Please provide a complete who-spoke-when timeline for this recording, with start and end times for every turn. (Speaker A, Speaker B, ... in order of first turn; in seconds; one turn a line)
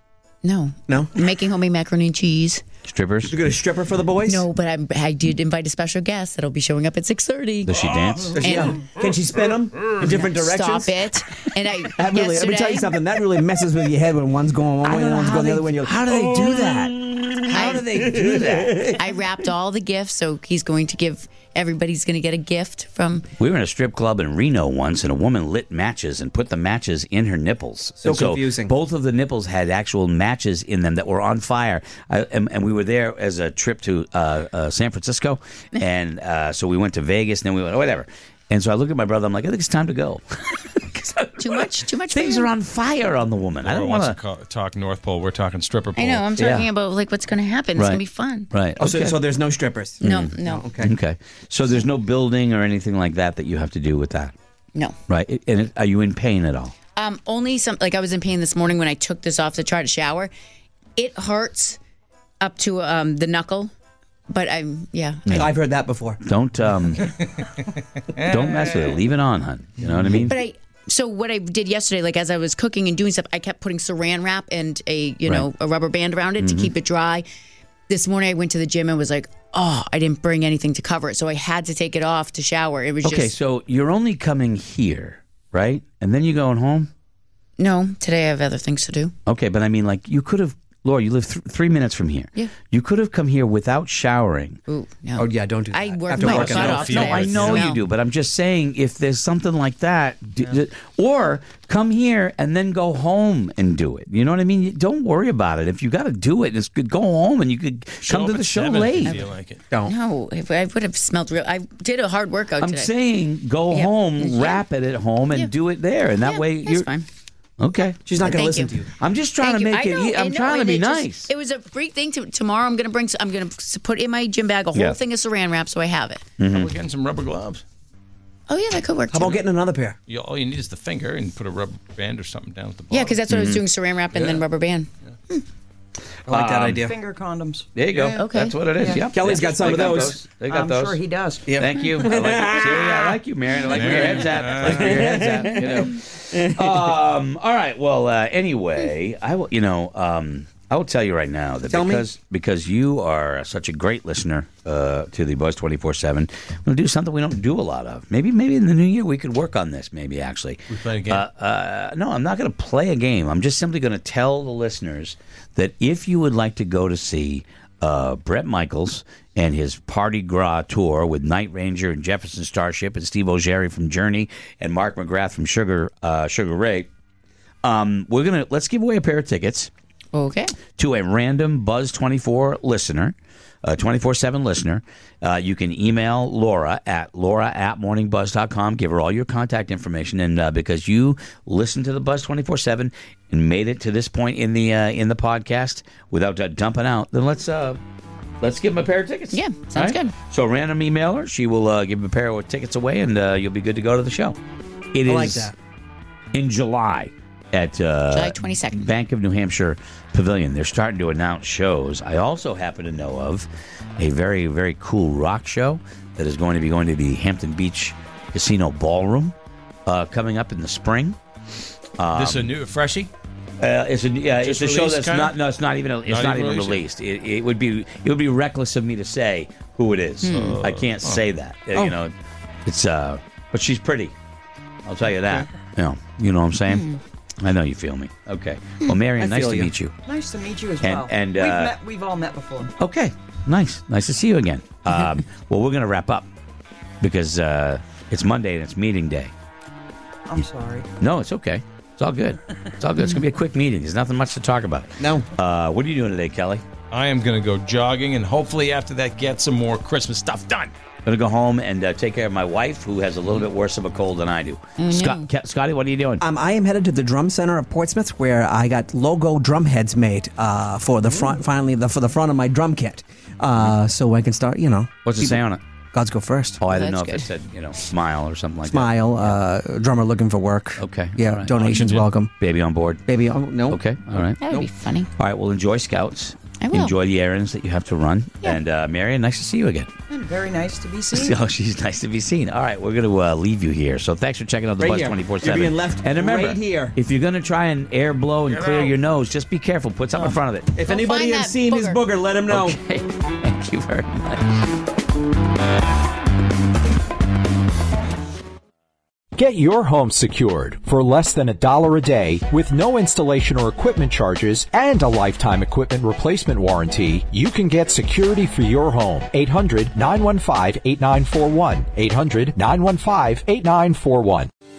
Speaker A: 0.4-2.6
Speaker B: 2.8-3.4
Speaker C: 3.3-4.5
Speaker A: 4.2-7.8
Speaker B: 7.7-8.5
Speaker C: 8.3-11.0
Speaker A: 8.4-8.8
Speaker A: 10.0-13.0
Speaker C: 11.9-18.9
Speaker B: 14.8-18.9
Speaker A: 17.5-17.9
Speaker A: 18.9-23.3
Speaker B: 23.4-44.2
Speaker C: 28.0-28.7
Speaker A: 41.4-42.5
Speaker D: 43.6-46.3
Speaker A: 45.9-48.5
Speaker B: 46.4-46.7
Speaker B: 47.8-49.2
Speaker C: 48.8-50.9
Speaker A: 50.0-50.7
Speaker B: 50.0-54.3
Speaker B: 55.1-56.8
Speaker A: 56.9-60.3
Speaker A: 61.0-61.8
Speaker A: 62.4-63.7
Speaker A: 64.3-65.5
Speaker C: 65.3-66.2
Speaker B: 66.2-67.1
Speaker B: 68.2-70.4
Speaker A: 70.3-77.2
Speaker B: 76.4-76.7
Speaker A: 77.9-83.3
Speaker B: 83.0-86.9
Speaker A: 87.6-89.1
Speaker B: 89.2-94.6
Speaker A: 94.7-97.8
Speaker C: 95.2-96.9
Speaker D: 96.2-97.6
Speaker B: 96.7-109.2
Speaker D: 108.0-109.6
Speaker A: 109.0-109.3
Speaker A: 109.8-112.9
Speaker B: 112.6-116.9
Speaker A: 113.7-114.6
Speaker A: 116.2-117.0
Speaker B: 117.6-118.2
Speaker C: 118.0-118.9
Speaker A: 118.2-118.8
Speaker B: 119.0-121.3
Speaker A: 119.4-126.2
Speaker B: 124.7-125.0
Speaker B: 126.4-126.7
Speaker D: 126.5-127.6
Speaker A: 128.5-129.4
Speaker C: 129.1-130.0
Speaker D: 130.1-133.2
Speaker A: 132.9-135.4
Speaker B: 133.3-133.6
Speaker D: 134.2-134.4
Speaker C: 136.3-137.0
Speaker B: 136.3-136.8
Speaker E: 136.8-137.7
Speaker B: 137.7-141.0
Speaker D: 137.9-138.2
Speaker A: 138.1-138.7
Speaker E: 138.8-139.2
Speaker C: 139.1-140.2
Speaker E: 140.0-141.5
Speaker C: 141.5-143.1
Speaker B: 141.6-176.9
Speaker D: 143.7-145.3
Speaker C: 144.6-146.8
Speaker C: 151.7-152.1
Speaker D: 160.7-161.2
Speaker B: 177.6-179.7
Speaker A: 180.1-180.6
Speaker B: 180.7-197.8
Speaker B: 198.4-204.4
Speaker A: 199.3-200.1
Speaker B: 204.9-205.5
Speaker C: 205.1-205.5
Speaker B: 206.3-219.3
Speaker A: 208.1-208.9
Speaker B: 219.8-221.2
Speaker B: 222.0-222.5
Speaker D: 222.1-223.1
Speaker B: 223.6-232.1
Speaker D: 224.4-225.3
Speaker D: 226.0-226.8
Speaker A: 230.2-230.6
Speaker D: 230.3-231.2
Speaker B: 232.7-234.1
Speaker B: 234.8-239.9
Speaker A: 236.7-237.0
Speaker C: 239.2-239.7
Speaker E: 240.0-242.7
Speaker B: 240.8-241.8
Speaker B: 242.8-246.3
Speaker B: 247.0-249.3
Speaker E: 250.3-250.9
Speaker B: 251.0-256.6
Speaker C: 255.0-255.2
Speaker D: 256.9-260.7
Speaker B: 261.0-266.2
Speaker A: 264.8-265.3
Speaker C: 266.2-275.4
Speaker B: 275.0-275.6
Speaker C: 275.9-276.6
Speaker B: 276.6-279.4
Speaker A: 276.7-277.3
Speaker C: 278.6-282.3
Speaker B: 280.8-283.1
Speaker C: 283.1-283.8
Speaker B: 283.7-284.4
Speaker A: 284.4-285.1
Speaker B: 285.2-289.9
Speaker A: 286.5-286.9
Speaker E: 290.1-291.4
Speaker B: 291.1-300.8
Speaker C: 294.8-296.9
Speaker D: 298.5-298.9
Speaker C: 300.7-302.8
Speaker A: 300.8-302.0
Speaker B: 302.5-304.5
Speaker F: 309.4-324.5